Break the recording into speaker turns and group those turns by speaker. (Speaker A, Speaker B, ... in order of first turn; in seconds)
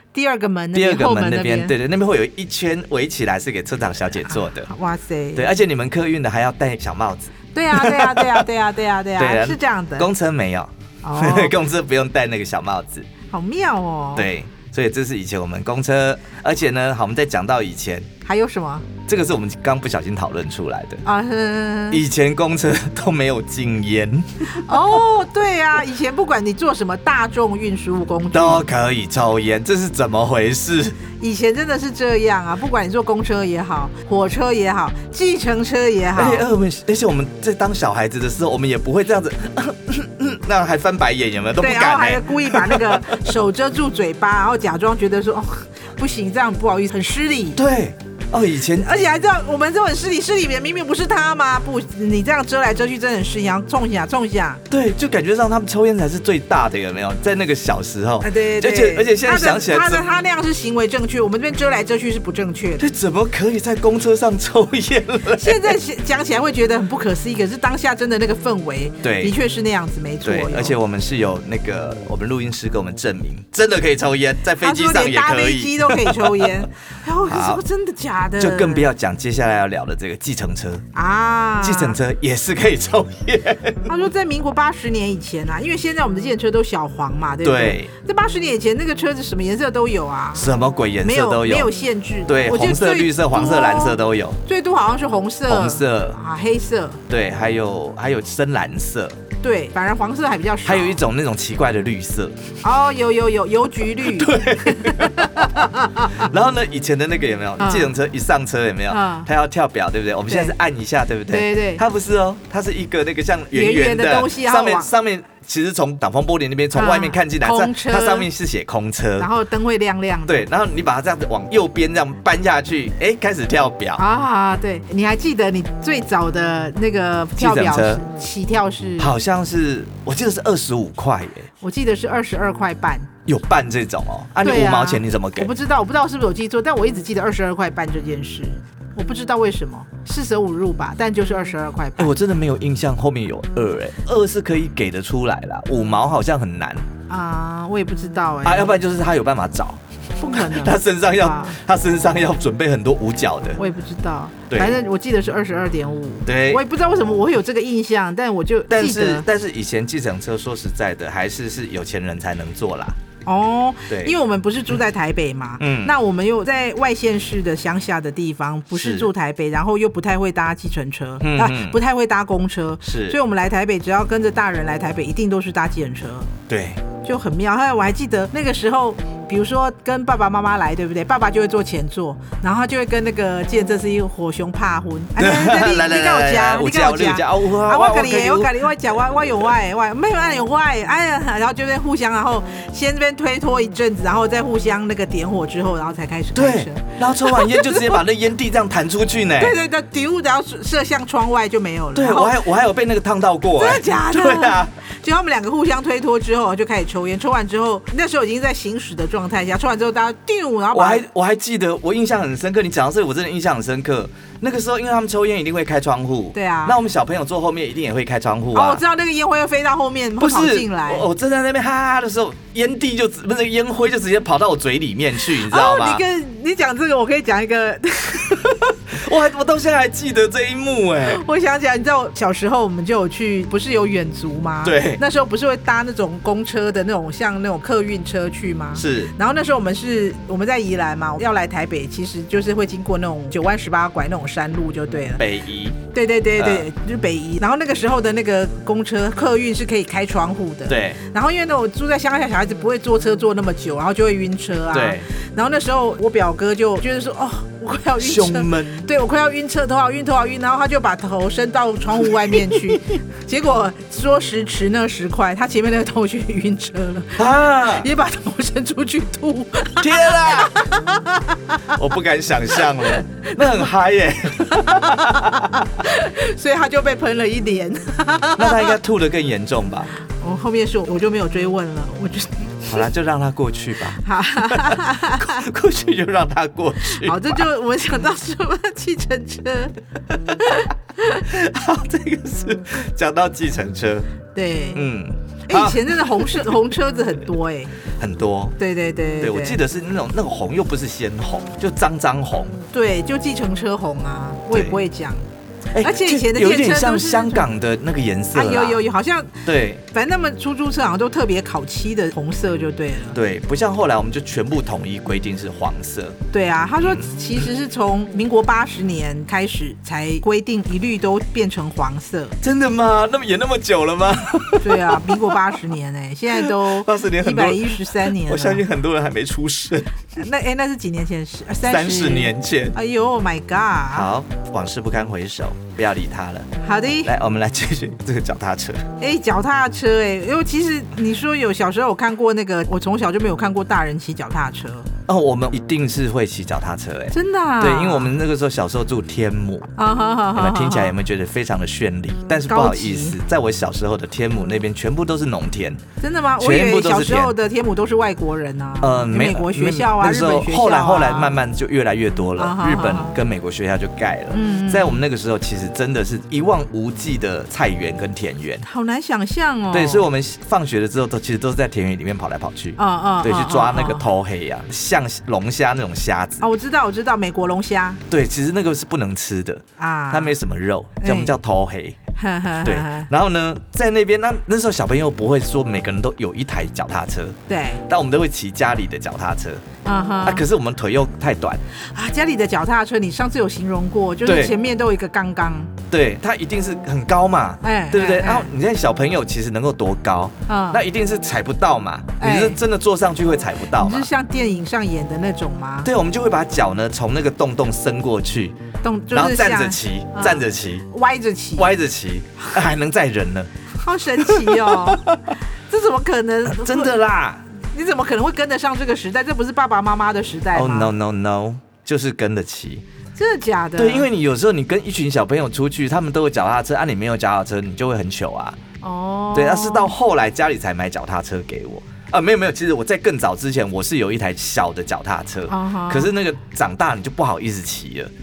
Speaker A: 0.1-1.7, 4.3-5.5, 7.5-10.1, 11.0-11.6, 13.3-14.3, 18.2-18.9, 21.0-22.0, 24.5-28.6, 31.2-36.4, 41.6-47.6, 48.7-54.6, 58.2-62.8, 65.3-70.8, 74.6-78.9, 80.9-82.0, 83.8-97.0, 99.4-101.0, 102.6-106.2, 107.6-107.9, 108.9-109.3, 110.3-110.5, 111.3-111.8, 113.5-114.9, 116.7-118.3, 119.2-120.4, 124.0-129.1, 131.6-133.1, 134.4-142.1, 147.1-148.7, 150.2-151.6, 153.6-159.2, 163.2-176.3, 177.0-198.0, 199.4-202.4, 203.5-211.0, 216.3-216.8, 218.5-221.0, 225.3-228.7, 231.0-245.2, 245.9-271.7, 272.9-273.6, 274.5-278.8, 280.2-282.8, 284.0-285.4, 287.0-291.3, 294.3-294.8, 295.5-297.7, 298.6-299.6, 302.7-305.2, 305.8-307.5, 308.3-309.4, 309.9-313.2, 316.3-322.4, 324.6-328.6, 330.1-334.1, 336.6-337.1, 339.0-344.9, 347.1-348.1, 349.8-350.9, 352.5-353.2, 356.0-361.4, 362.4-363.1, 364.3-365.0, 368.6-370.1, 372.8-374.1, 376.4-378.0, 379.8-380.4, 381.0-381.3, 382.2-383.1, 387.5-387.8, 389.8-390.4, 391.8-395.7, 397.6-398.5, 400.5-400.8, 402.2-402.6, 403.7-405.9, 408.8-411.7, 413.8-415.1, 415.7-417.0, 417.7-420.9, 423.1-424.1, 428.8-429.9, 435.5-436.1
Speaker B: 0.7-4.7, 5.3-8.4, 9.2-13.1, 14.2-18.1, 19.1-21.0, 21.9-24.5, 28.3-31.0, 36.1-43.3, 47.5-48.9, 54.7-60.0, 62.8-65.8, 69.0-69.3, 70.2-76.7, 77.2-77.6, 78.4-80.8, 81.6-83.8, 87.4-87.9, 90.3-91.7, 92.3-94.4, 95.5-96.2, 97.1-99.1, 100.6-102.4, 104.0-119.3, 120.3-124.0, 127.4-128.0, 129.0-131.5, 133.3-135.5, 142.0-146.8, 148.4-149.8, 150.3-153.6, 154.5-154.8, 156.2-156.6, 158.7-162.9, 163.9-164.1, 165.6-165.9, 168.7-169.1, 171.2-171.8, 172.8-173.2, 176.5-176.8, 185.2-189.1, 196.3-199.6, 201.9-204.7, 210.7-218.8, 220.2-226.0, 228.9-231.2, 234.6-235.0, 238.8-239.1, 245.2-245.8, 246.4-246.7, 250.7-251.0, 254.7-255.1, 258.0-258.9, 262.2-262.6, 267.2-267.9, 269.8-270.6, 271.7-275.6, 278.4-279.9, 282.7-287.5, 291.2-294.1, 294.7-296.6, 298.0-298.6, 299.2-302.6, 304.5-304.8, 305.7-308.8, 309.4-309.8, 313.1-316.1, 316.8-317.1, 322.4-325.7, 326.3-329.9, 331.6-332.8, 333.9-336.5, 337.0-338.8, 345.1-349.7, 350.3-355.8, 356.4-357.3, 358.8-368.6, 369.7-376.4, 378.1-381.9, 382.6-387.4, 387.9-389.6, 390.2-391.6, 394.2-394.5, 395.9-404.1, 405.8-408.6, 409.1-410.9, 411.6-413.5, 414.2-415.0, 416.4-417.4, 420.5-422.8, 423.8-428.6, 429.3-438.1